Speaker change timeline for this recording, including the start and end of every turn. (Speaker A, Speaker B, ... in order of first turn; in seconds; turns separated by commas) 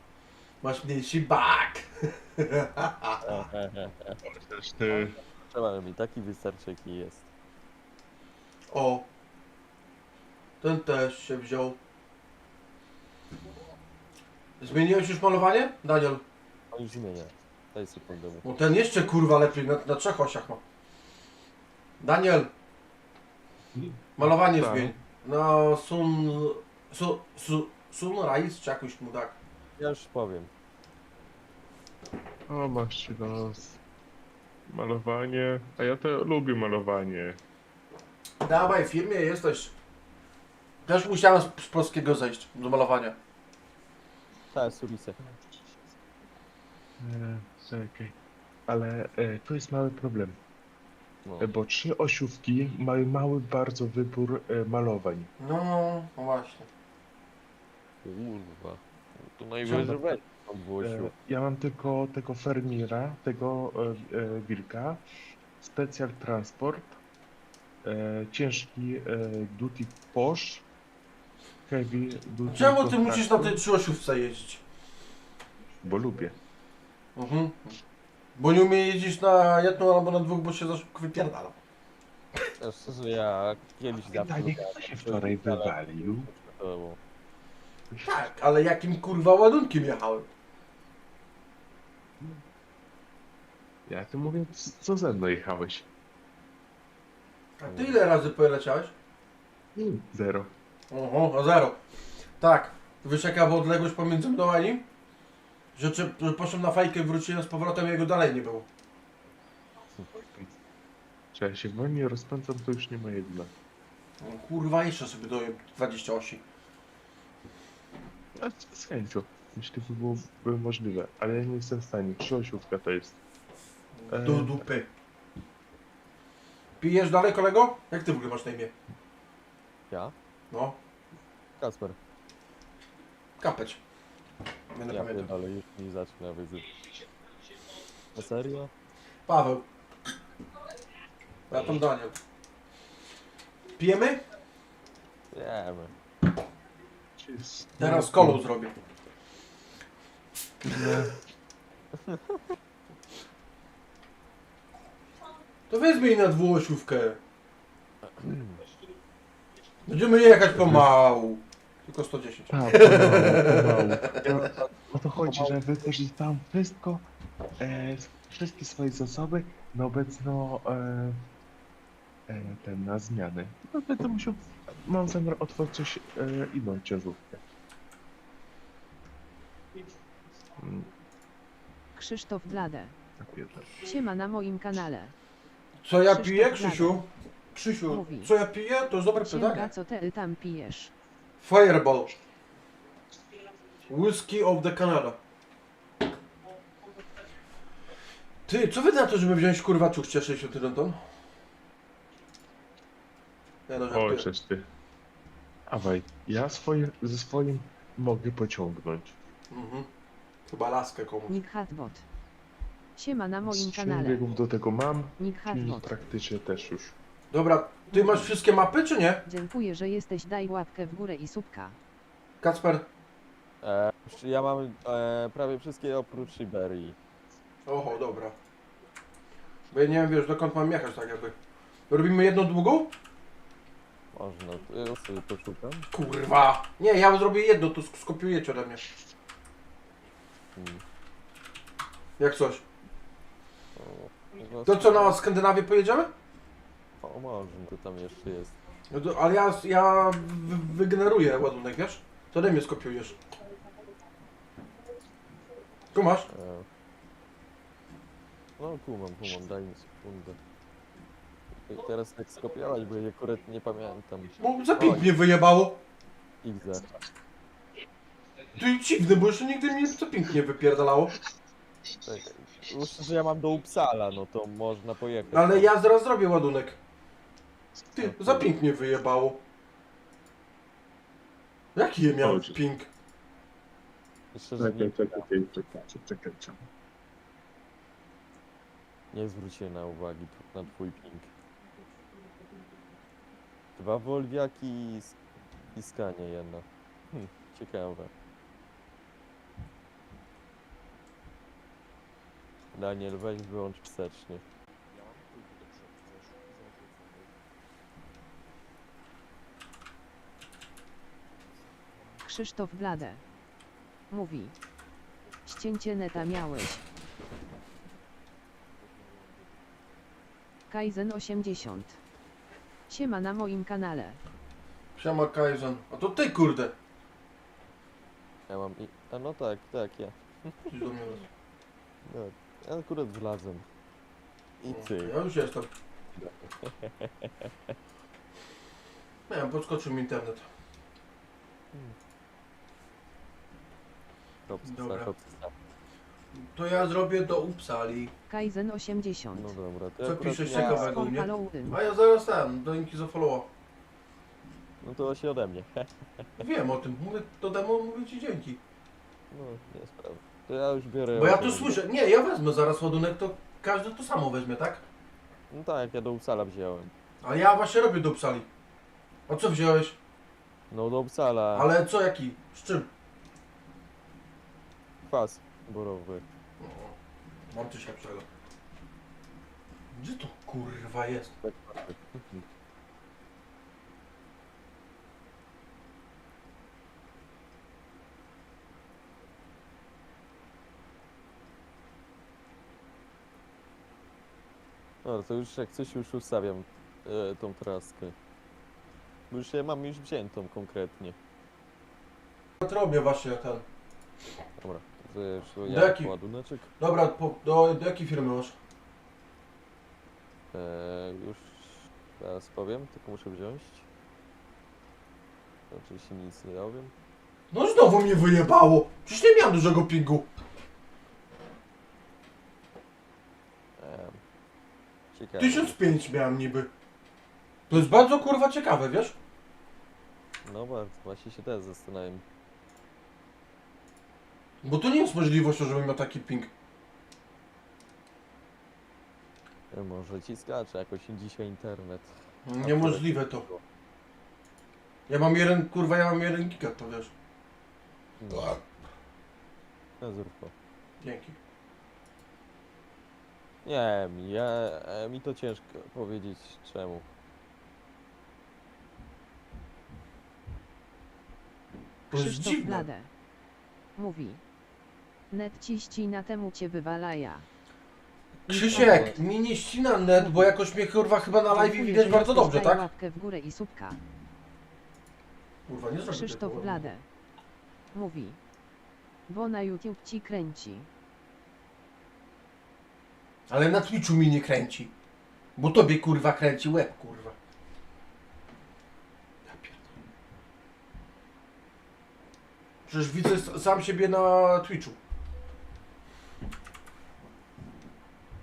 Speaker A: 0.6-3.4, Speaker B: 3.2-4.2, Speaker C: 4.2-5.2, Speaker B: 4.9-7.3, Speaker A: 8.7-9.1, Speaker A: 10.6-11.8, Speaker A: 14.6-16.2, Speaker B: 16.7-18.4, Speaker A: 18.4-20.6, Speaker A: 22.0-22.5, Speaker C: 23.7-25.0, Speaker A: 24.1-29.4, Speaker B: 29.8-30.5, Speaker C: 32.5-33.8, Speaker C: 34.7-37.4, Speaker A: 38.4-39.7, Speaker A: 40.8-43.2, Speaker B: 44.5-45.2, Speaker C: 47.0-48.1, Speaker C: 48.7-50.4, Speaker C: 51.4-55.3, Speaker A: 55.4-56.7, Speaker B: 58.0-61.1, Speaker C: 59.6-60.2, Speaker C: 60.8-65.0, Speaker C: 65.6-67.0, Speaker C: 67.8-70.7, Speaker C: 71.7-73.6, Speaker A: 72.5-74.6, Speaker C: 75.8-76.3, Speaker A: 77.2-77.8, Speaker A: 78.3-81.6, Speaker B: 82.6-87.0, Speaker C: 84.0-86.3, Speaker A: 88.0-90.3, Speaker C: 93.8-95.9, Speaker A: 97.6-98.9, Speaker B: 97.7-97.9, Speaker C: 99.8-100.5, Speaker A: 100.9-101.8, Speaker A: 102.4-104.9, Speaker A: 105.7-108.7, Speaker C: 110.1-110.5, Speaker C: 111.3-113.5, Speaker A: 114.2-116.4, Speaker C: 118.4-123.2, Speaker A: 123.9-124.9, Speaker C: 124.1-124.6, Speaker A: 126.8-128.7, Speaker A: 130.5-130.8, Speaker B: 131.6-132.0, Speaker A: 133.4-133.8, Speaker A: 134.7-135.3, Speaker B: 134.9-136.8, Speaker B: 138.1-138.7, Speaker A: 139.3-139.7, Speaker A: 141.5-142.2, Speaker B: 141.5-141.8, Speaker A: 143.8-144.2, Speaker B: 145.3-145.9, Speaker C: 147.2-148.4, Speaker A: 147.8-148.7, Speaker C: 150.6-151.2, Speaker A: 155.7-157.2, Speaker B: 158.1-158.6, Speaker A: 159.8-164.4, Speaker C: 160.6-160.9, Speaker C: 162.5-167.1, Speaker B: 164.2-165.6, Speaker C: 167.6-171.2, Speaker C: 172.3-177.4, Speaker C: 180.6-180.9, Speaker D: 181.9-182.9, Speaker C: 183.2-183.9, Speaker D: 183.8-185.1, Speaker A: 185.8-189.7, Speaker D: 186.1-187.0, Speaker D: 187.9-188.3, Speaker D: 189.2-190.9, Speaker A: 191.4-192.1, Speaker A: 193.9-195.2, Speaker A: 198.5-201.0, Speaker A: 203.7-204.3, Speaker C: 203.9-204.7, Speaker C: 205.7-209.2, Speaker A: 209.5-209.9, Speaker A: 210.5-211.3, Speaker D: 211.3-212.1, Speaker D: 212.9-214.2, Speaker C: 213.4-216.9, Speaker D: 215.2-216.0, Speaker A: 217.3-219.2, Speaker D: 219.2-221.8, Speaker A: 222.4-222.9, Speaker B: 223.6-226.9, Speaker A: 227.7-228.3, Speaker A: 229.7-231.3, Speaker A: 231.9-232.9, Speaker B: 234.1-235.9, Speaker A: 235.9-238.8, Speaker B: 240.6-240.8, Speaker A: 242.2-242.6, Speaker B: 243.8-245.2, Speaker A: 244.7-246.1, Speaker B: 247.0-248.6, Speaker A: 248.9-253.2, Speaker A: 255.9-256.3, Speaker B: 256.3-256.6, Speaker B: 258.6-260.4, Speaker B: 261.6-265.1, Speaker A: 264.4-265.8, Speaker B: 266.4-266.9, Speaker A: 268.6-271.1, Speaker B: 272.0-275.7, Speaker A: 275.3-276.8, Speaker A: 277.9-279.4, Speaker B: 278.0-278.5, Speaker A: 281.7-282.9, Speaker C: 282.2-282.6, Speaker B: 284.3-285.3, Speaker C: 284.6-286.6, Speaker B: 289.1-291.3, Speaker B: 293.8-295.1, Speaker B: 295.7-298.1, Speaker B: 302.7-304.4, Speaker D: 312.2-313.2, Speaker D: 314.1-314.5, Speaker D: 315.4-316.8, Speaker D: 320.7-322.0, Speaker D: 322.9-324.2, Speaker A: 324.9-326.7, Speaker B: 328.5-330.7, Speaker A: 330.7-331.3, Speaker B: 332.1-333.6, Speaker B: 334.6-335.1, Speaker A: 334.7-335.7, Speaker B: 336.1-337.7, Speaker A: 339.3-340.5, Speaker B: 344.5-345.5, Speaker A: 344.6-345.1, Speaker A: 346.3-348.1, Speaker D: 348.3-349.5, Speaker B: 349.3-351.1, Speaker A: 350.0-353.5, Speaker D: 350.5-351.8, Speaker B: 354.8-356.2, Speaker A: 356.4-358.6, Speaker B: 359.3-361.8, Speaker A: 361.1-364.8, Speaker B: 365.5-366.9, Speaker A: 367.2-368.5, Speaker A: 369.3-370.0, Speaker B: 370.7-371.7, Speaker A: 371.5-372.9, Speaker B: 375.1-376.2, Speaker A: 376.6-376.9, Speaker A: 377.5-378.2, Speaker A: 379.9-381.3, Speaker B: 381.4-382.4, Speaker B: 395.0-398.1, Speaker B: 399.3-401.1, Speaker A: 402.6-403.6, Speaker B: 404.6-406.7, Speaker A: 405.6-406.1, Speaker A: 406.8-408.5, Speaker B: 410.5-413.9, Speaker B: 415.7-416.9, Speaker A: 417.5-420.3, Speaker B: 423.8-424.2, Speaker B: 425.1-425.8, Speaker A: 425.4-426.7, Speaker A: 427.7-429.2, Speaker B: 430.4-432.2, Speaker A: 434.6-436.5, Speaker B: 439.7-443.6, Speaker A: 442.4-443.4, Speaker A: 445.1-447.1, Speaker B: 448.2-448.6, Speaker B: 450.0-450.5, Speaker A: 451.0-451.4, Speaker B: 453.6-457.1, Speaker A: 462.1-462.9, Speaker D: 462.1-463.1, Speaker D: 463.9-464.4, Speaker D: 465.3-467.4, Speaker B: 468.5-469.2, Speaker A: 468.5-472.8, Speaker D: 468.8-469.0, Speaker D: 470.2-470.5, Speaker D: 471.4-474.0, Speaker A: 475.7-476.9, Speaker D: 476.1-477.0, Speaker D: 477.9-478.4, Speaker D: 479.3-480.9, Speaker A: 483.5-484.9, Speaker A: 485.6-487.3, Speaker A: 489.5-489.9, Speaker A: 492.9-495.0